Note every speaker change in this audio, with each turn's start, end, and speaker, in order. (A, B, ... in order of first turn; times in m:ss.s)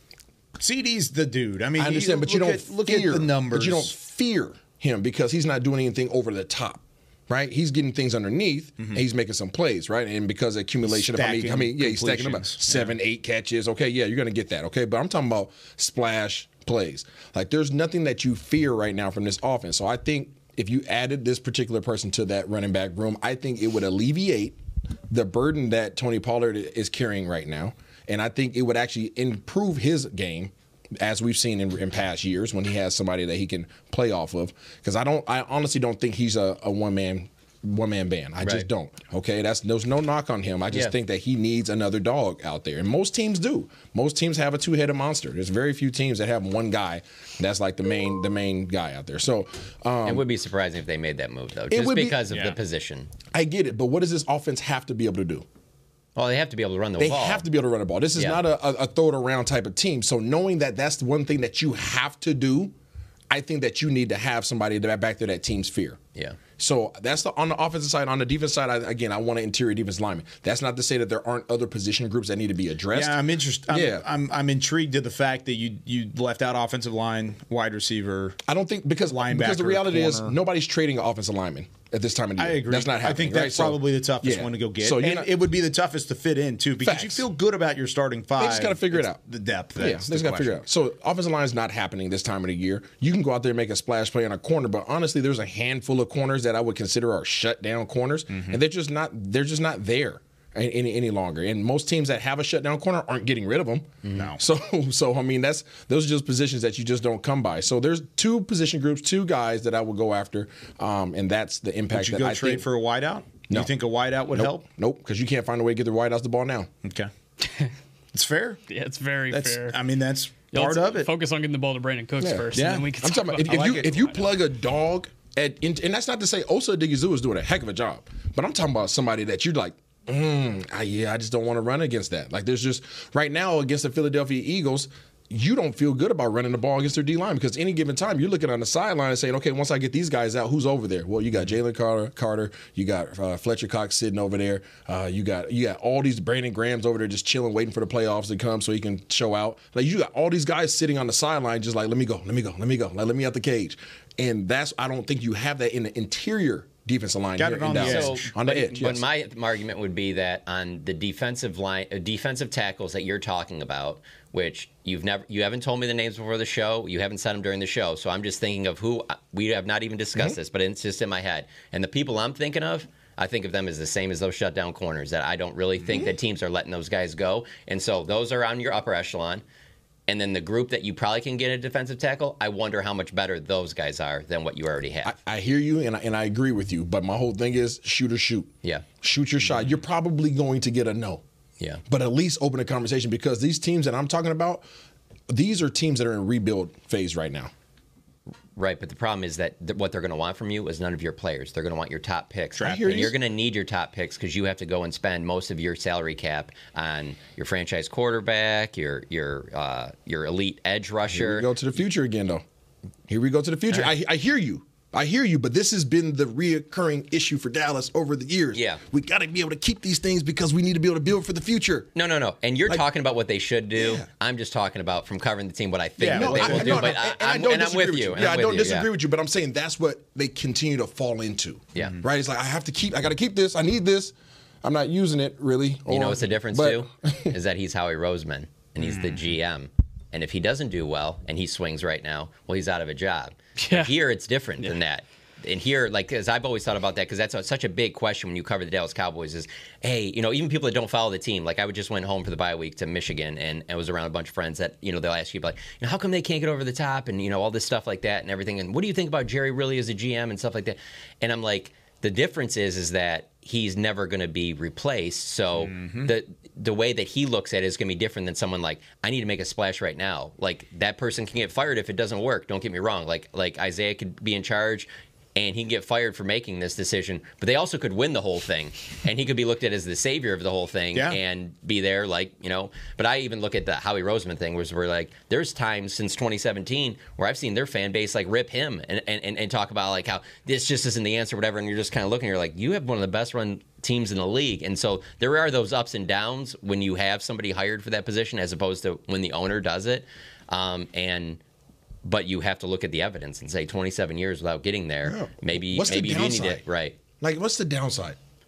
0:00.6-0:03.9 A
0:01.8-0:24.6 B
0:10.9-0:12.9 A
0:25.1-0:50.2 B
0:38.4-0:38.7 C
0:50.0-0:53.1 C
0:51.7-0:52.2 B
0:52.3-0:52.6 A
0:53.3-0:55.4 B
0:56.2-0:57.4 C
0:57.0-1:02.7 B
1:03.3-1:06.0 B
1:06.6-1:14.0 B
1:12.9-1:18.4 A
1:18.4-1:25.3 B
1:19.1-1:20.4 A
1:22.4-1:30.6 A
1:26.8-1:27.2 B
1:28.4-1:29.2 B
1:29.8-1:52.6 B
1:38.3-1:38.6 A
1:44.1-1:44.4 A
1:51.9-1:54.6 A
1:54.3-1:56.7 B
1:56.8-1:57.1 A
1:58.1-1:58.6 A
1:58.7-1:59.8 D
1:59.3-2:01.1 A
2:00.5-2:04.3 D
2:02.2-2:39.0 B
2:02.5-2:02.9 A
2:37.4-2:38.3 A
2:37.8-2:59.4 C
2:55.9-2:56.1 B
3:00.1-3:05.1 C
3:05.0-3:11.2 B
3:11.9-3:14.6 B
3:15.3-3:17.5 B
3:18.6-3:31.5 C
3:22.6-3:23.1 B
3:31.1-3:32.4 B
3:33.1-3:41.9 B
3:38.5-3:38.8 C
3:41.9-3:48.9 C
3:43.8-3:44.1 B
3:46.0-3:46.9 A
3:46.1-3:57.4 B
3:51.7-3:52.0 C
3:55.9-5:01.4 C
3:58.8-3:59.2 A
4:03.6-4:03.9 D
4:25.6-4:26.1 A
5:02.0-5:07.0 C
5:05.0-5:06.6 B
5:07.2-5:08.2 B